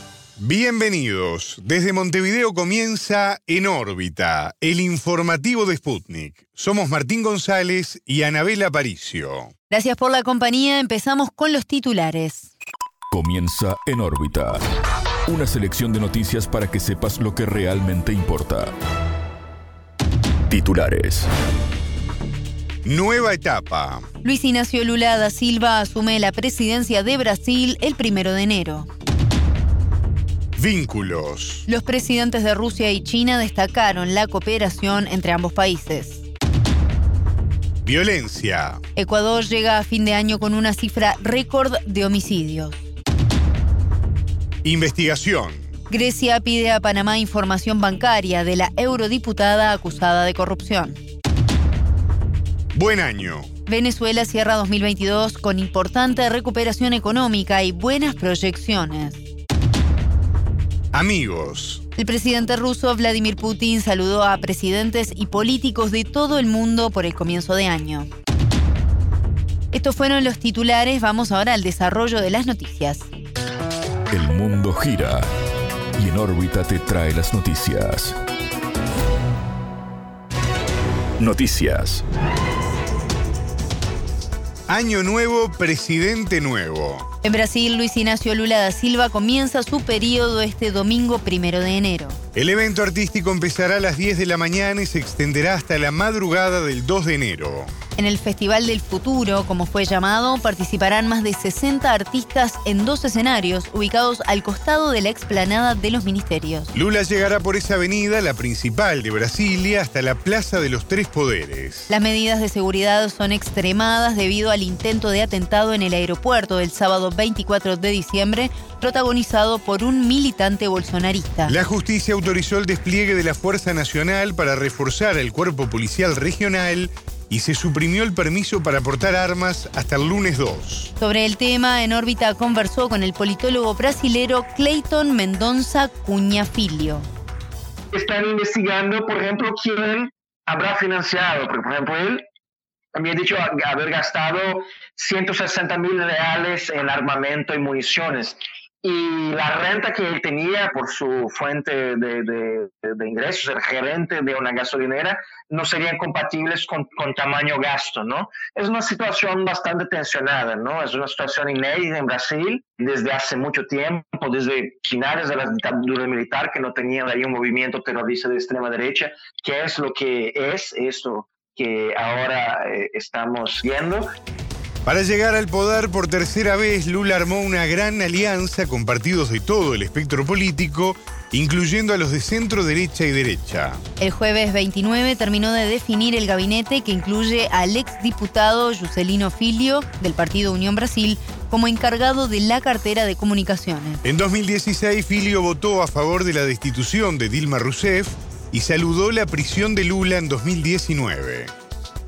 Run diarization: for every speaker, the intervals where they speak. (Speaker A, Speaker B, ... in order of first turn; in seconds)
Speaker A: 0.4-9.5, 22.8-24.1, 30.6-31.7, 37.9-38.8, 44.6-45.7, 52.7-53.5, 60.9-61.8, 84.7-87.1, 92.3-97.7, 106.7-111.9, 121.5-130.9, 174.8-183.8, 194.0-201.5
Speaker B: 9.7-12.5, 24.2-28.9, 31.7-36.2, 39.0-42.8, 45.9-51.0, 53.7-59.2, 62.0-68.1, 69.7-73.1, 87.2-92.2, 98.0-106.7, 111.9-121.5, 131.0-137.1, 184.0-194.0
Speaker C: 13.1-14.6, 15.3-18.7, 20.5-21.3, 74.1-75.2, 76.0-78.2, 81.2-82.0
Speaker D: 137.9-142.2, 142.9-174.1